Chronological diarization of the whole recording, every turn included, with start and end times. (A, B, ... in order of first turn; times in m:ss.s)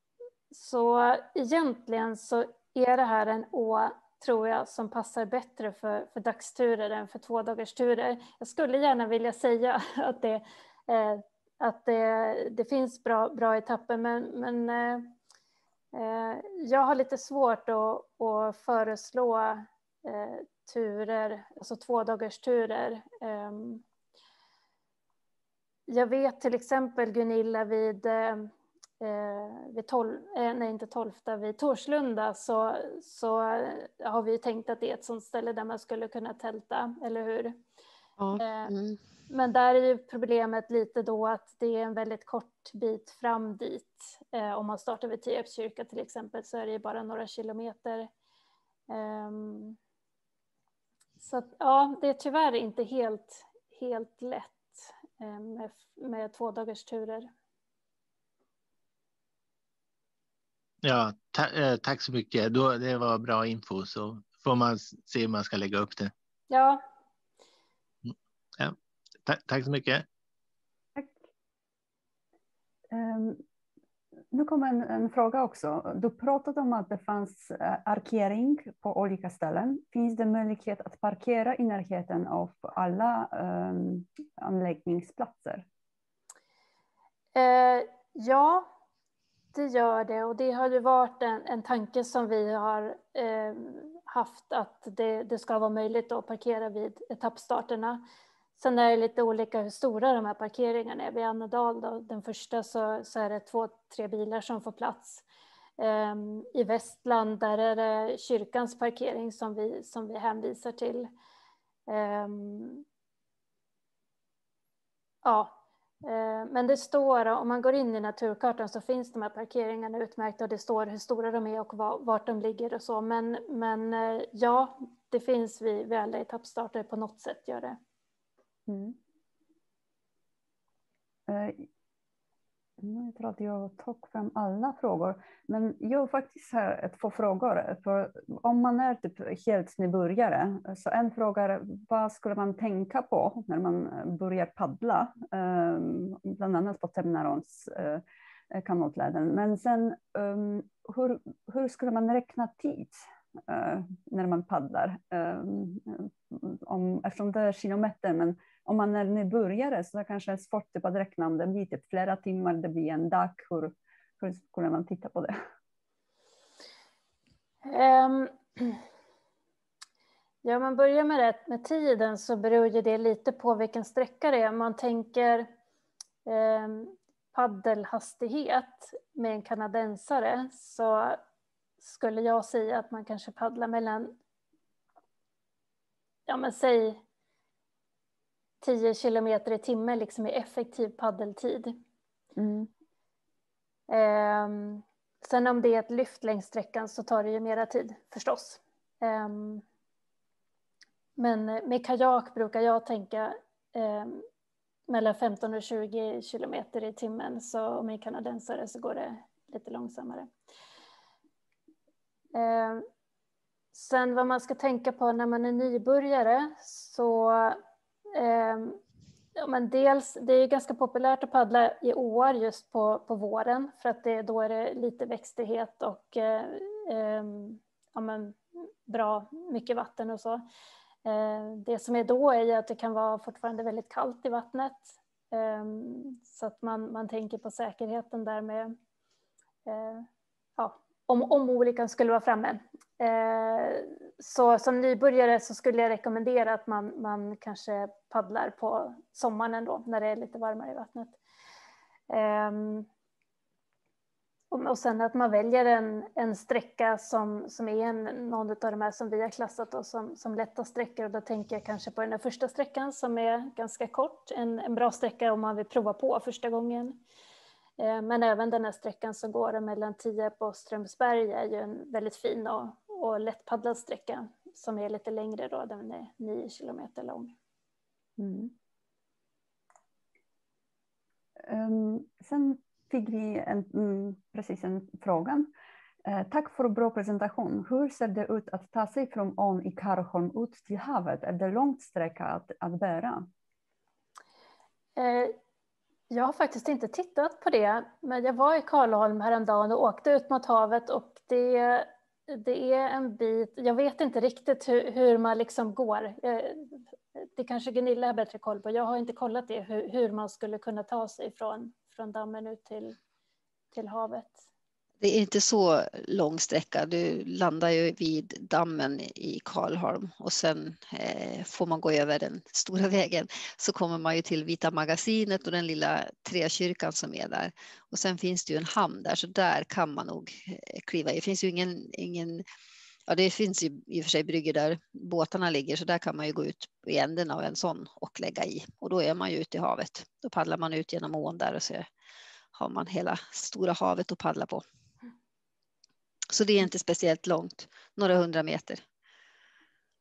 0:00.5-0:15.1 A
0:15.9-0:23.8 A
0:25.9-0:37.6 A
0:38.2-0:39.0 B
0:38.4-0:38.7 A
0:39.3-0:48.1 A
0:48.9-0:49.8 A
0:51.2-0:57.3 A
1:00.8-1:06.1 C
1:06.5-1:06.8 A
1:08.0-1:10.0 C
1:11.0-1:11.2 D
1:12.9-1:13.4 D
1:14.3-1:25.7 D
1:27.3-1:28.7 A
1:29.5-1:38.0 A
1:38.6-1:45.2 A
1:45.8-1:51.1 A
1:51.9-1:52.8 A
1:55.2-2:07.8 A
2:08.7-2:09.0 D
2:11.3-2:11.7 D
2:12.8-2:45.4 D
2:47.6-2:48.8 A
2:50.4-2:55.5 A
2:56.2-3:01.2 A
3:01.8-3:04.2 A
3:06.3-3:07.0 A
3:08.6-3:11.8 A
3:12.4-3:12.7 D
3:13.9-3:19.6 A
3:21.2-3:24.2 A
3:24.9-3:30.3 A
3:32.3-3:32.8 A
3:33.7-3:37.6 A
3:38.1-3:38.8 A
3:39.4-3:50.4 A
3:51.0-3:58.7 A
3:59.6-4:11.2 A
4:12.1-4:12.9 A
4:14.5-4:27.0 A
4:27.8-4:37.3 A
4:38.2-4:38.5 D
4:41.4-4:45.5 D
4:46.0-4:53.3 D
4:55.0-4:55.3 A
4:56.1-5:13.0 A
5:13.7-5:14.4 A
5:15.0-5:32.4 B
5:33.1-5:41.8 B
5:42.5-5:44.6 B
5:46.3-5:48.8 B